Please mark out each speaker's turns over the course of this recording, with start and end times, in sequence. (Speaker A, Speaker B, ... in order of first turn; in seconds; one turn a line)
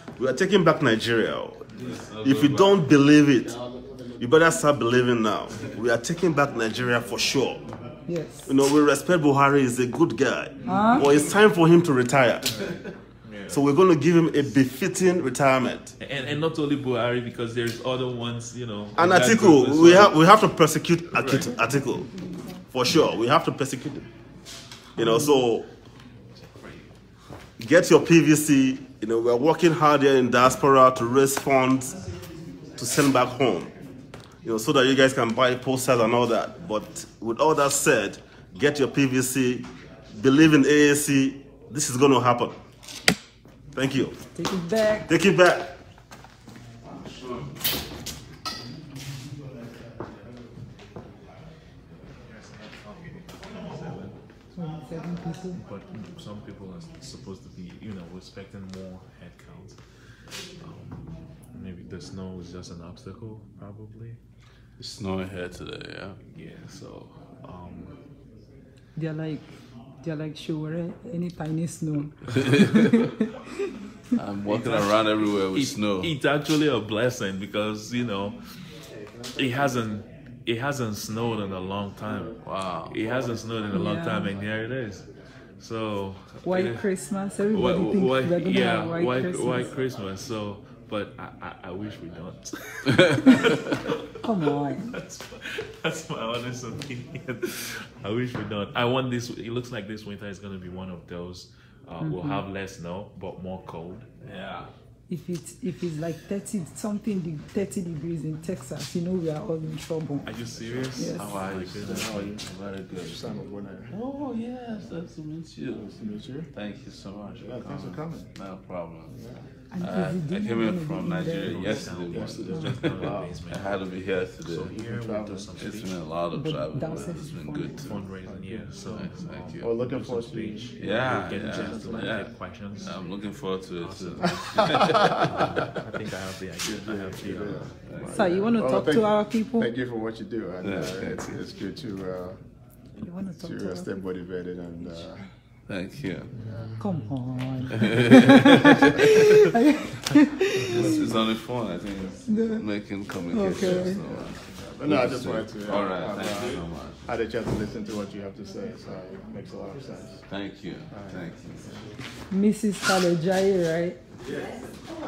Speaker A: 0.2-3.6
Speaker B: 1.8-2.8
Speaker A: 4.2-7.7
Speaker C: 8.1-8.5
Speaker A: 8.4-12.7
Speaker C: 10.6-11.1
Speaker D: 13.2-13.6
Speaker A: 13.5-15.9
Speaker D: 16.0-20.1
Speaker A: 18.9-22.1
Speaker D: 21.1-21.6
Speaker C: 21.9-22.6
Speaker A: 22.7-24.1
Speaker A: 24.9-25.6
Speaker C: 25.0-25.4
Speaker A: 27.6-32.0
Speaker A: 32.8-33.7
Speaker A: 34.4-42.5
Speaker A: 43.7-44.1
Speaker C: 44.3-45.1
Speaker A: 45.0-45.7
Speaker B: 46.9-47.5
Speaker D: 52.2-54.2
Speaker C: 54.5-55.6
Speaker D: 55.5-59.8
Speaker D: 60.6-64.2
Speaker B: 64.8-66.2
Speaker D: 66.3-68.0
Speaker C: 69.0-69.5
Speaker C: 70.0-73.4
Speaker B: 72.5-72.9
Speaker B: 74.2-76.1
Speaker D: 74.4-78.4
Speaker E: 78.9-79.6
Speaker D: 79.3-85.0
Speaker B: 82.4-83.0
Speaker E: 83.1-83.4
Speaker C: 83.7-84.3
Speaker D: 85.6-86.8
Speaker C: 86.4-89.7
Speaker D: 87.5-94.1
Speaker C: 94.2-94.9
Speaker D: 94.7-104.1
Speaker C: 102.0-102.4
Speaker B: 104.2-104.7
Speaker C: 105.1-110.3
Speaker D: 110.2-112.4
Speaker C: 111.0-111.2
Speaker B: 111.1-113.2
Speaker E: 113.0-113.9
Speaker B: 113.9-115.9
Speaker E: 115.7-116.5
Speaker B: 116.5-119.1
Speaker E: 117.4-118.3
Speaker E: 119.1-119.4
Speaker C: 119.7-121.9
Speaker B: 119.8-124.8
Speaker D: 121.3-123.8
Speaker E: 122.1-123.4
Speaker D: 124.4-126.0
Speaker E: 124.7-125.6
Speaker B: 125.6-128.0
Speaker C: 126.3-127.9
Speaker D: 127.8-133.0
Speaker E: 128.3-128.7
Speaker B: 128.8-129.7
Speaker E: 129.6-132.2
Speaker B: 130.8-132.2
Speaker B: 132.8-135.3
Speaker D: 133.8-137.7
Speaker E: 136.6-142.4
Speaker B: 137.9-138.4
Speaker C: 138.1-139.7
Speaker B: 140.6-141.4
Speaker C: 143.0-144.1
Speaker E: 143.4-145.2
Speaker B: 145.7-146.3
Speaker C: 146.8-151.0
Speaker B: 147.8-148.7
Speaker B: 150.7-157.0
Speaker C: 152.3-152.6
Speaker C: 153.3-154.0
Speaker E: 153.5-160.2
Speaker B: 160.3-161.8
Speaker E: 160.9-161.8
Speaker C: 162.3-164.0